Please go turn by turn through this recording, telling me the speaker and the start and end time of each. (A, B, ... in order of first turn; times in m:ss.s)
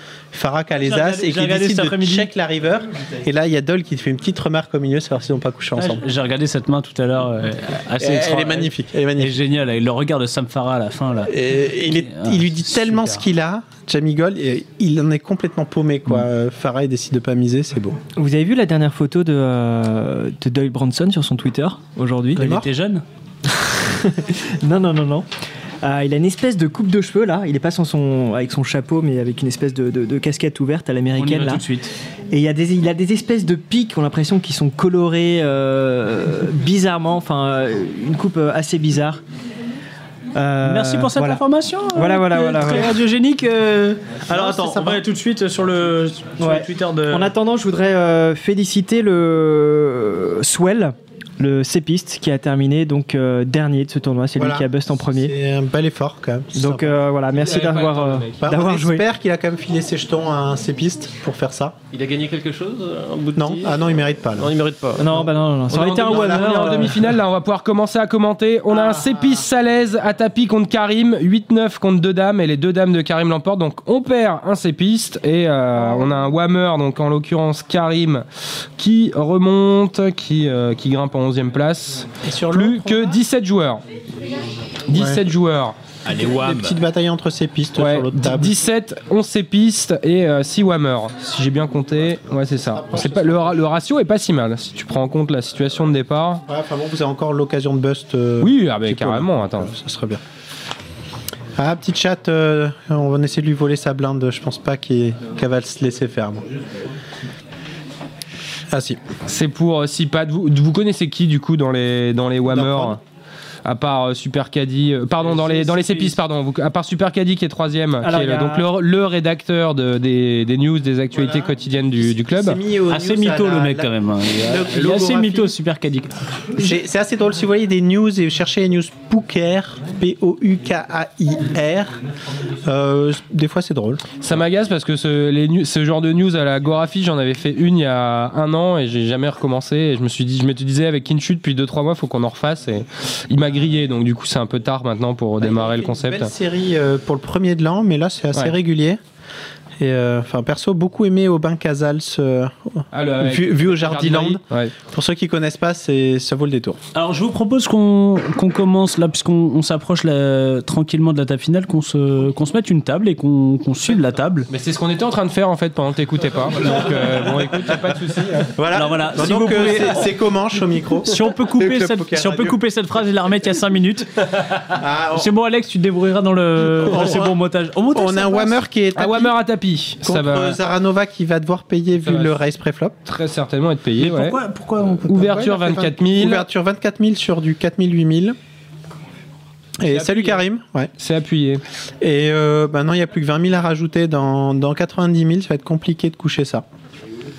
0:00.3-0:06.0 A
0:00.8-0:02.3 B
0:05.8-0:13.2 B
0:08.0-0:09.4 A
0:11.3-0:18.0 A
0:18.2-0:22.5 C
0:22.3-0:23.0 B
0:22.4-0:22.7 A
0:23.8-0:25.2 C
0:25.8-0:31.6 C
0:31.2-0:31.9 B
0:32.3-0:39.2 C
0:40.3-0:41.4 C
0:40.6-0:47.3 B
0:41.9-0:42.9 C
0:44.3-0:45.0 A
0:46.4-0:55.3 C
0:54.4-0:57.0 A
0:56.5-0:59.0 C
0:57.3-0:58.5 D
0:58.4-1:01.8 A
1:01.9-1:05.1 E
1:03.3-1:04.5 A
1:05.0-1:07.0 C
1:05.7-1:18.2 D
1:05.8-1:06.4 E
1:06.1-1:06.8 A
1:18.8-1:23.8 D
1:22.2-1:23.2 A
1:24.9-1:25.8 D
1:24.9-1:25.2 A
1:26.1-1:28.6 A
1:27.8-1:36.4 D
1:32.7-1:33.6 A
1:36.5-1:40.2 A
1:38.4-1:39.7 D
1:41.6-1:46.4 A
1:48.7-1:49.0 A
1:49.2-1:53.0 D
1:52.5-1:53.0 A
1:53.6-2:02.6 D
1:55.2-1:56.1 A
1:58.0-1:58.7 C
2:01.1-2:05.5 A
2:02.9-2:06.1 B
2:06.6-2:11.9 A
2:12.6-2:14.0 A
2:14.2-2:26.3 D
2:25.4-2:29.0 A
2:29.8-2:36.8 A
2:32.9-2:34.7 D
2:36.9-2:44.5 B
2:44.5-2:48.5 D
2:48.6-2:52.6 A
2:48.7-2:50.2 B
2:51.0-2:54.1 B
2:54.8-2:55.3 A
2:55.1-2:58.6 B
2:56.7-2:57.4 A
2:57.9-2:59.4 A
2:58.9-3:00.6 D
3:00.0-3:03.0 A
3:02.0-3:02.4 D
3:03.0-3:04.4 D
3:04.0-3:05.0 B
3:05.1-3:06.4 D
3:05.1-3:08.4 A
3:09.8-3:10.9 A
3:09.8-3:10.4 D
3:11.0-3:11.6 D
3:12.0-3:16.6 A